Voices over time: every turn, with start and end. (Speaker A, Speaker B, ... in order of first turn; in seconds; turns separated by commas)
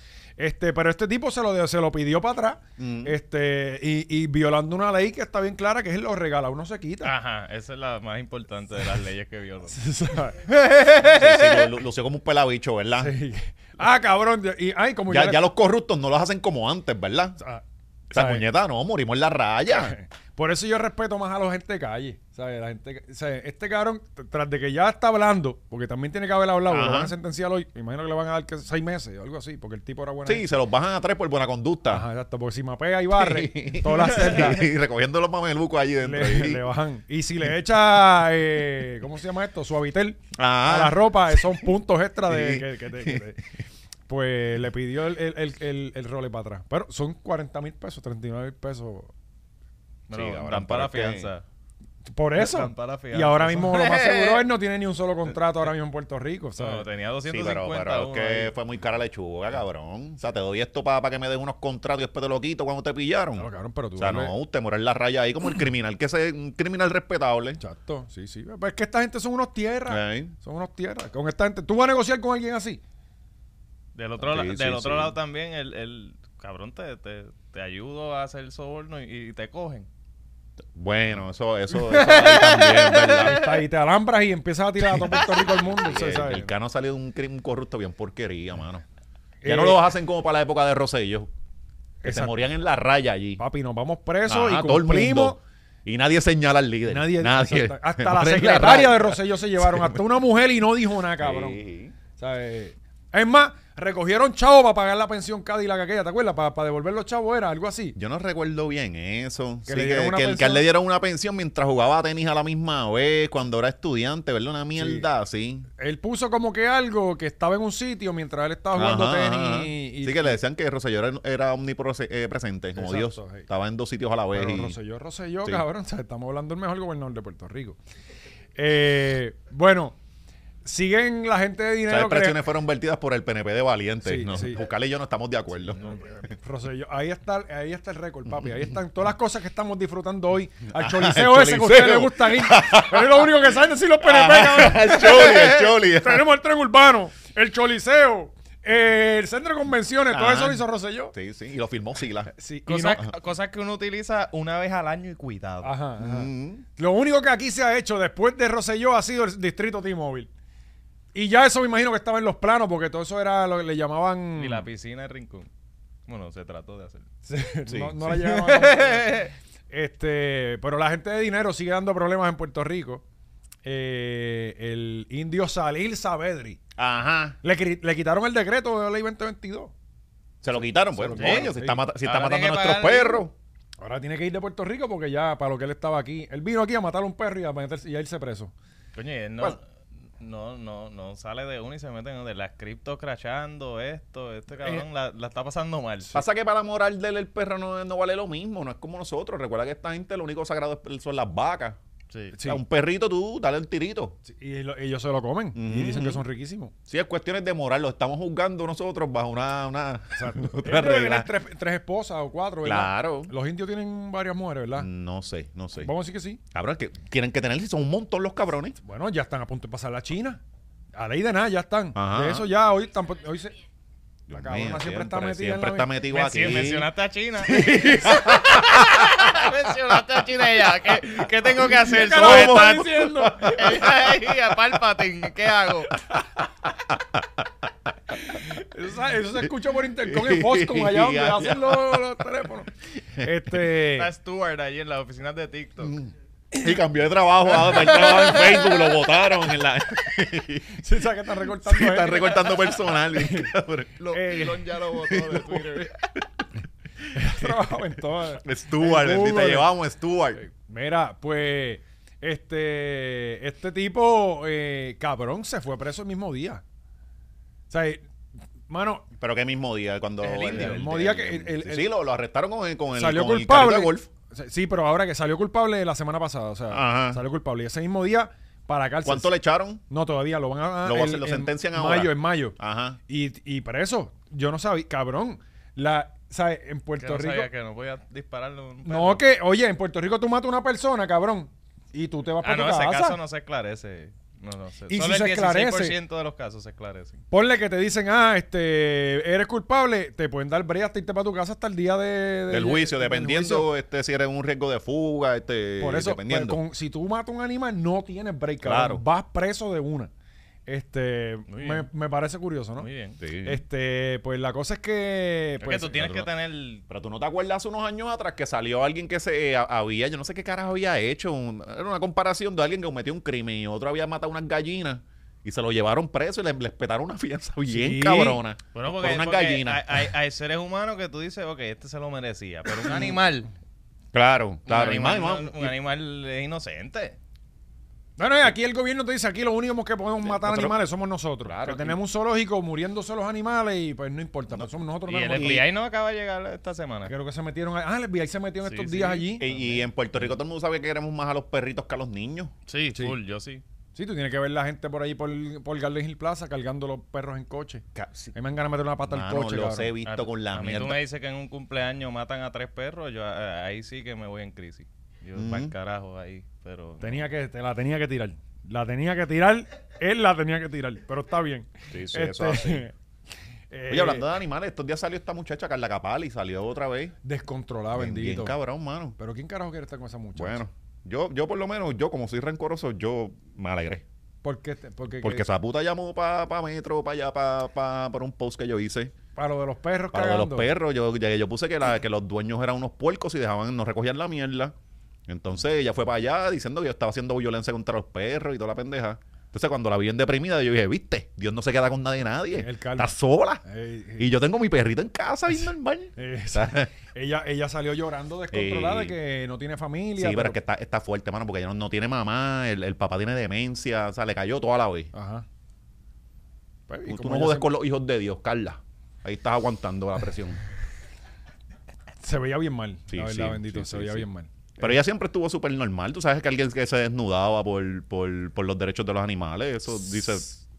Speaker A: 0.4-7.1, Speaker B: 2.8-3.2, Speaker C: 7.0-9.8, Speaker A: 9.7-10.4, Speaker C: 10.5-11.7, Speaker B: 11.0-13.1, Speaker A: 13.0-15.5, Speaker B: 15.1-17.4, Speaker A: 17.4-18.4, Speaker B: 18.1-19.9, Speaker A: 19.7-30.4, Speaker B: 26.7-27.1, Speaker B: 30.3-32.1, Speaker A: 31.9-34.6, Speaker B: 33.1-36.7, Speaker A: 36.0-43.4, Speaker B: 40.3-41.6, Speaker B: 42.3-43.3, Speaker A: 44.1-49.1, Speaker C: 50.1-51.4, Speaker B: 50.1-51.3, Speaker A: 52.1-56.8, Speaker C: 52.4-54.5, Speaker C: 56.6-58.5, Speaker B: 57.3-67.6, Speaker A: 63.4-64.3, Speaker A: 67.6-72.8, Speaker B: 69.9-70.3, Speaker C: 74.0-79.9, Speaker B: 74.2-75.2, Speaker B: 80.7-83.4, Speaker C: 81.9-83.5, Speaker A: 83.1-86.5, Speaker B: 85.1-88.8, Speaker A: 89.4-89.8, Speaker B: 89.5-91.3, Speaker A: 92.0-92.5, Speaker B: 92.0-93.4, Speaker A: 93.4-95.4, Speaker B: 94.3-100.1, Speaker A: 96.9-101.6, Speaker B: 101.2-101.9, Speaker A: 102.2-108.0, Speaker B: 108.0-115.7, Speaker A: 109.7-110.7, Speaker A: 114.8-115.0, Speaker A: 115.8-120.4, Speaker B: 118.7-124.8, Speaker A: 122.8-123.5, Speaker A: 124.3-127.8, Speaker A: 128.6-130.0, Speaker A: 130.7-132.4, Speaker B: 131.9-136.2, Speaker A: 134.0-134.6, Speaker A: 135.8-151.1, Speaker B: 140.7-146.3, Speaker B: 150.1-150.6, Speaker B: 151.1-152.3, Speaker A: 152.3-153.0, Speaker C: 152.7-155.7, Speaker A: 155.6-160.3, Speaker B: 156.0-156.7, Speaker A: 161.1-164.7, Speaker C: 164.4-165.5, Speaker C: 166.1-167.1, Speaker A: 167.3-173.0, Speaker B: 167.7-168.0, Speaker C: 168.1-169.3, Speaker A: 173.6-176.6, Speaker B: 176.8-177.4, Speaker A: 177.4-179.7, Speaker B: 180.4-183.3, Speaker A: 180.5-181.8, Speaker C: 181.2-181.5, Speaker C: 182.0-183.3, Speaker A: 183.8-188.5, Speaker C: 188.9-189.6, Speaker C: 190.2-196.1, Speaker B: 196.1-201.8, Speaker A: 202.3-202.6, Speaker B: 202.4-204.2, Speaker A: 204.3-206.7, Speaker B: 205.6-206.2, Speaker B: 206.9-211.3, Speaker A: 210.2-214.9, Speaker B: 212.6-213.3, Speaker B: 214.8-215.9, Speaker A: 215.8-216.4, Speaker B: 216.5-218.8, Speaker A: 218.8-220.4, Speaker A: 220.9-223.6, Speaker B: 221.9-222.5, Speaker B: 224.3-229.4, Speaker A: 224.3-226.7, Speaker C: 226.1-236.0, Speaker B: 230.9-234.8, Speaker A: 231.9-233.9, Speaker B: 236.7-237.7, Speaker A: 238.4-244.1, Speaker B: 240.0-242.1, Speaker C: 243.9-245.9, Speaker B: 245.8-250.8, Speaker C: 247.7-248.7, Speaker A: 250.7-252.4, Speaker B: 251.6-256.2, Speaker A: 253.2-253.5, Speaker C: 254.1-255.9, Speaker A: 254.1-254.5, Speaker A: 257.1-259.7, Speaker B: 257.2-257.8, Speaker B: 258.4-260.4, Speaker A: 260.4-266.6, Speaker A: 267.7-268.0, Speaker A: 268.7-269.1, Speaker B: 269.2-274.1, Speaker C: 270.2-270.8, Speaker A: 270.5-271.9, Speaker A: 272.9-279.3, Speaker B: 276.7-277.2, Speaker B: 279.1-279.8, Speaker A: 279.9-282.6, Speaker B: 280.8-283.0, Speaker A: 283.1-287.5, Speaker C: 287.0-289.2, Speaker A: 288.9-293.2, Speaker C: 292.4-297.2, Speaker A: 294.9-296.0, Speaker A: 297.3-303.7, Speaker B: 302.5-306.6, Speaker A: 305.8-310.1, Speaker B: 308.6-309.0, Speaker A: 310.7-312.9, Speaker C: 311.5-311.9, Speaker C: 312.8-313.2, Speaker B: 313.2-313.6, Speaker A: 313.4-316.1, Speaker C: 315.6-316.8, Speaker B: 316.0-316.3, Speaker B: 316.9-330.1, Speaker A: 327.7-328.4, Speaker C: 328.7-333.5, Speaker B: 332.8-333.2, Speaker B: 334.1-335.7, Speaker C: 334.7-337.2, Speaker A: 338.2-345.6, Speaker B: 340.2-340.8, Speaker B: 341.4-342.0, Speaker C: 345.1-347.1, Speaker B: 345.3-345.6, Speaker A: 347.1-349.5, Speaker C: 348.6-349.8, Speaker B: 349.4-352.5, Speaker C: 352.7-353.6, Speaker A: 354.0-357.8, Speaker B: 357.9-358.4, Speaker A: 358.4-359.9, Speaker B: 359.1-361.0, Speaker C: 360.1-367.3, Speaker B: 365.4-365.7, Speaker A: 367.0-372.9, Speaker B: 371.9-372.9, Speaker A: 373.7-374.3, Speaker B: 373.9-377.2, Speaker A: 377.2-378.6, Speaker B: 377.9-379.2, Speaker A: 379.2-380.6, Speaker B: 380.4-384.0, Speaker A: 384.4-385.4, Speaker B: 385.2-389.1, Speaker A: 389.4-390.7, Speaker B: 390.1-394.7, Speaker B: 395.3-403.6, Speaker A: 402.6-404.3, Speaker B: 404.2-406.9, Speaker A: 406.2-410.6, Speaker B: 408.5-409.2, Speaker B: 410.2-415.1, Speaker A: 415.1-415.4, Speaker A: 416.9-417.7, Speaker B: 417.1-420.6, Speaker A: 422.2-424.5, Speaker B: 423.1-424.3, Speaker B: 424.8-430.5